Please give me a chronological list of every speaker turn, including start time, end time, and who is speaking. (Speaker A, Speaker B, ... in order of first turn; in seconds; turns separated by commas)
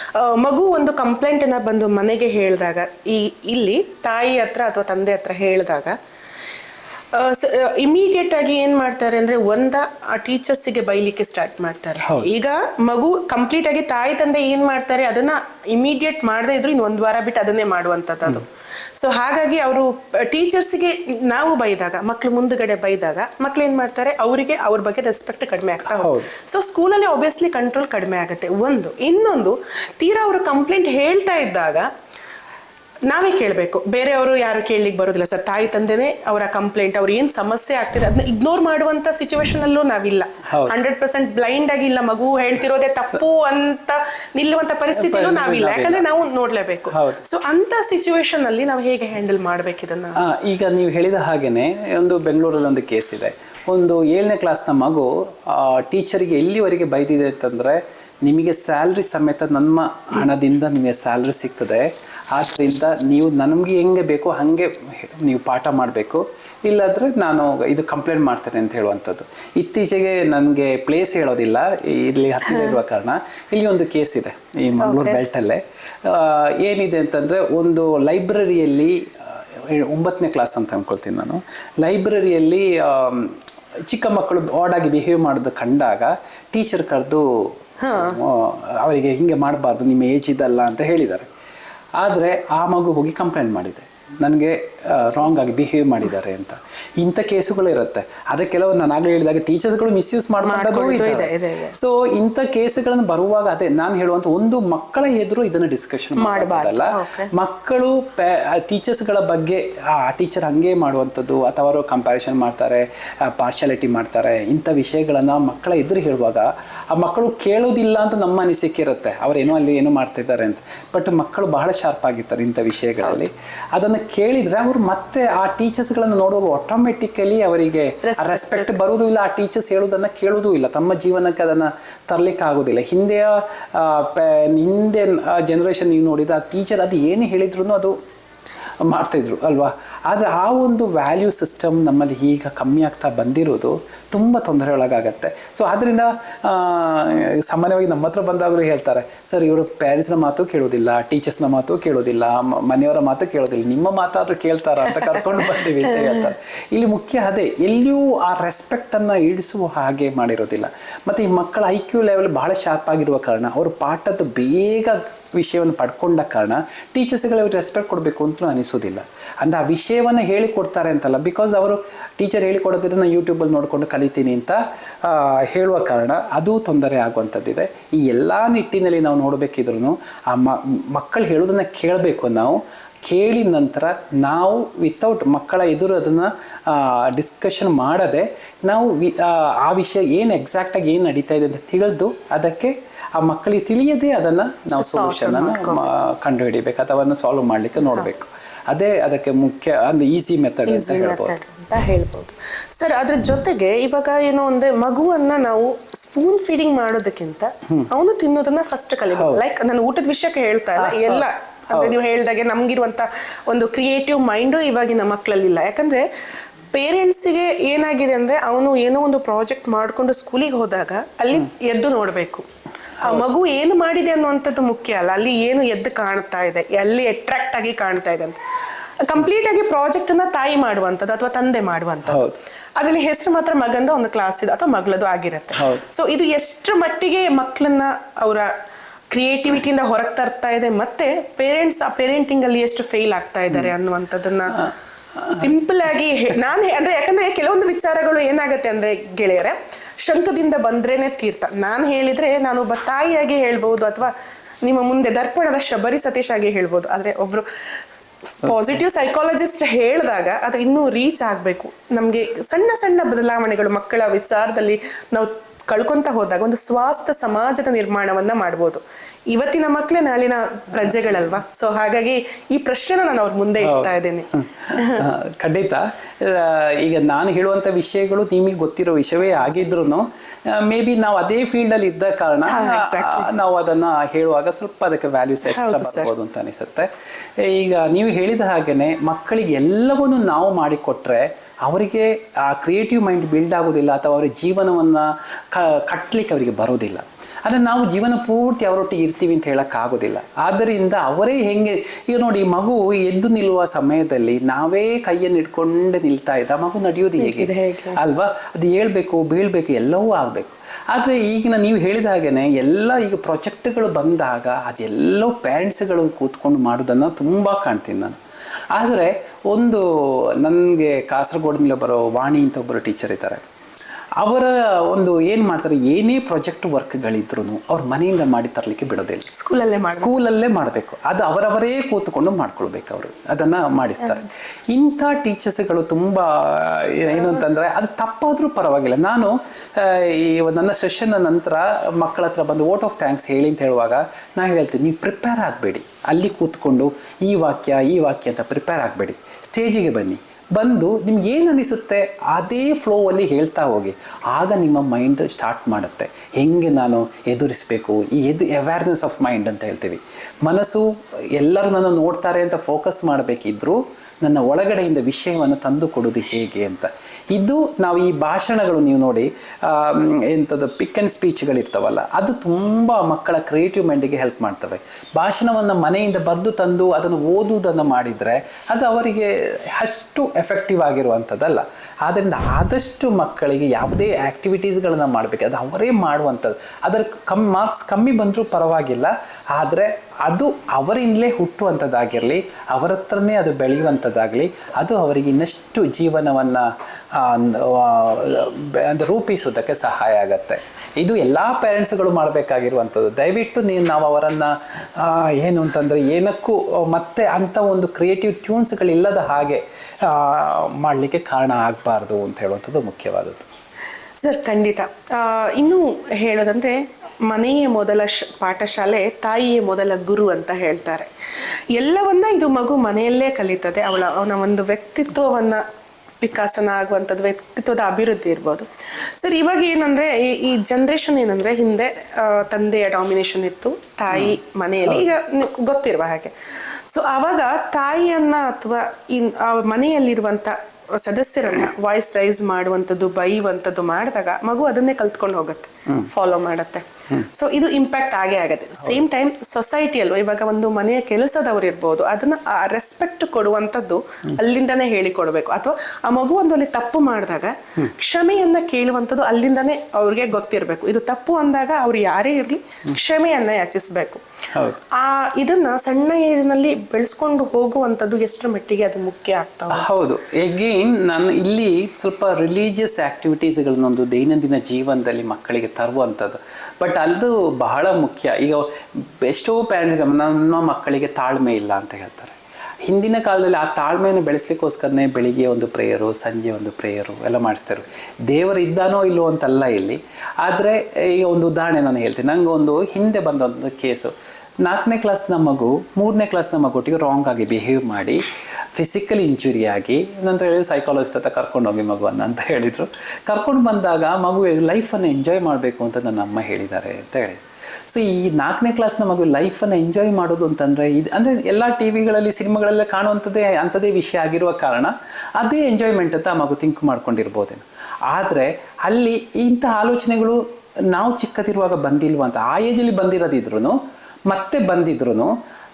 Speaker A: 0.2-6.0, Speaker A: 7.1-18.5, Speaker A: 19.0-31.9, Speaker B: 25.9-26.3, Speaker A: 33.1-50.2, Speaker B: 40.5-40.7, Speaker B: 44.9-46.0, Speaker B: 46.9-47.2, Speaker B: 50.2-83.4, Speaker A: 72.5-72.8, Speaker A: 74.8-75.2, Speaker B: 83.9-91.3, Speaker A: 87.8-88.2, Speaker B: 92.0-137.9, Speaker A: 100.4-101.8, Speaker A: 106.2-107.3, Speaker A: 128.0-128.8, Speaker B: 138.8-201.3, Speaker A: 154.9-156.3, Speaker A: 194.8-195.9, Speaker A: 197.8-198.1, Speaker A: 200.7-216.0, Speaker B: 209.2-209.4, Speaker B: 210.8-211.9, Speaker A: 216.7-222.4, Speaker A: 223.0-228.4, Speaker A: 229.0-238.5, Speaker B: 232.1-232.3, Speaker B: 235.6-235.8, Speaker A: 239.1-244.6, Speaker B: 244.5-245.5, Speaker A: 245.3-254.1, Speaker A: 254.6-257.4, Speaker A: 258.4-275.1, Speaker B: 273.6-318.2, Speaker A: 279.4-279.6, Speaker A: 282.5-283.3, Speaker A: 285.5-286.1, Speaker A: 307.2-308.0, Speaker B: 318.7-323.4, Speaker B: 324.2-329.2, Speaker A: 329.4-330.1, Speaker B: 329.9-360.8, Speaker A: 337.1-337.4, Speaker B: 361.3-396.6, Speaker B: 397.1-413.5, Speaker A: 414.2-421.1, Speaker A: 421.7-425.6, Speaker A: 426.2-428.7, Speaker A: 429.2-436.3, Speaker A: 436.9-464.2, Speaker B: 464.5-464.8, Speaker A: 464.9-469.9, Speaker B: 469.7-482.3, Speaker B: 482.9-494.1, Speaker B: 494.6-498.2, Speaker B: 498.8-523.8, Speaker B: 524.3-525.3